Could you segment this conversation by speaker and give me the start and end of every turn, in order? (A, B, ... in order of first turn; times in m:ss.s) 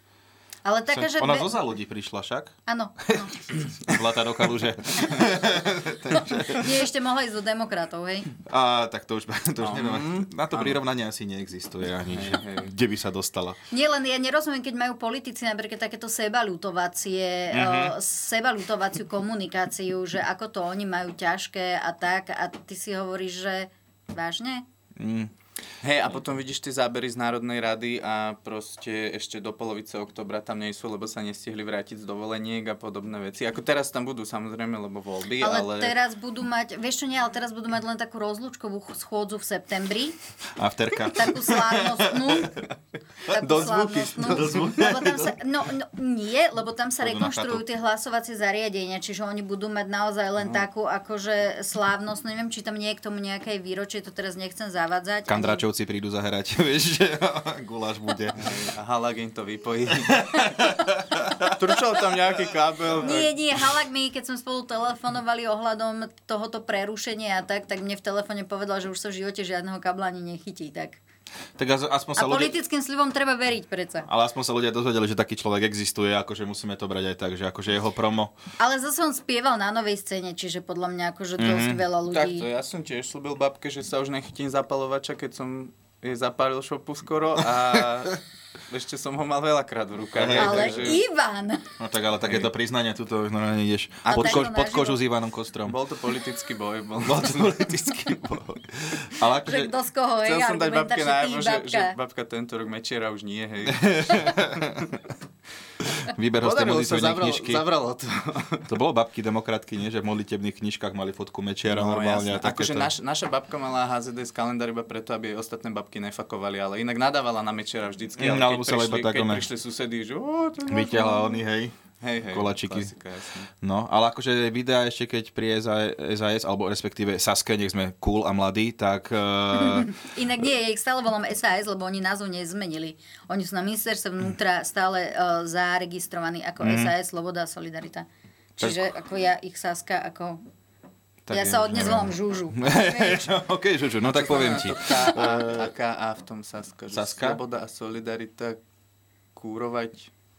0:00.6-0:01.5 A
0:00.9-0:02.6 B
0:02.7-0:03.4 A
0:03.1-0:06.6 B
0:06.6-0:08.3 A
0:08.4-0:13.6 B
0:09.6-0:10.8 C
0:12.1-0:12.7 C
0:13.7-0:24.6 A
0:17.5-0:17.9 B
0:25.0-0:25.3 B
0:25.8-0:35.9 C
0:35.4-0:40.1 A
0:40.6-0:42.4 B
0:41.1-0:42.5 A
0:43.3-0:44.9 C
0:43.3-0:55.6 A
0:44.2-0:45.3 B
0:47.0-0:47.6 B
0:55.3-0:58.4 B
0:58.4-1:00.6 C
1:00.5-1:01.5 B
1:01.6-1:03.3 C
1:03.0-1:11.0 A
1:11.6-1:12.5 B
1:12.2-1:14.1 A
1:14.1-1:18.3 B
1:18.6-1:22.5 A
1:21.4-1:21.8 B
1:22.1-1:31.0 C
1:30.1-1:31.0 B
1:30.4-1:31.6 A
1:31.8-1:35.8 B
1:32.2-1:32.5 C
1:34.0-1:34.5 C
1:34.1-1:35.0 A
1:35.6-1:37.7 C
1:37.0-1:39.7 B
1:39.4-1:41.9 A
1:40.2-1:44.3 C
1:43.7-1:44.8 B
1:46.1-1:47.7 B
1:46.4-1:48.7 C
1:48.7-1:52.9 B
1:51.7-2:01.4 C
1:58.2-1:59.4 B
2:00.7-2:01.7 B
2:02.0-2:03.5 C
2:02.3-2:02.9 B
2:03.6-2:09.9 B
2:09.5-2:18.1 A
2:16.6-2:16.9 B
2:18.6-2:20.4 A
2:18.6-2:18.9 B
2:21.2-2:25.7 B
2:21.3-2:23.3 A
2:24.0-2:28.6 C
2:26.9-2:27.4 B
2:29.4-2:30.1 C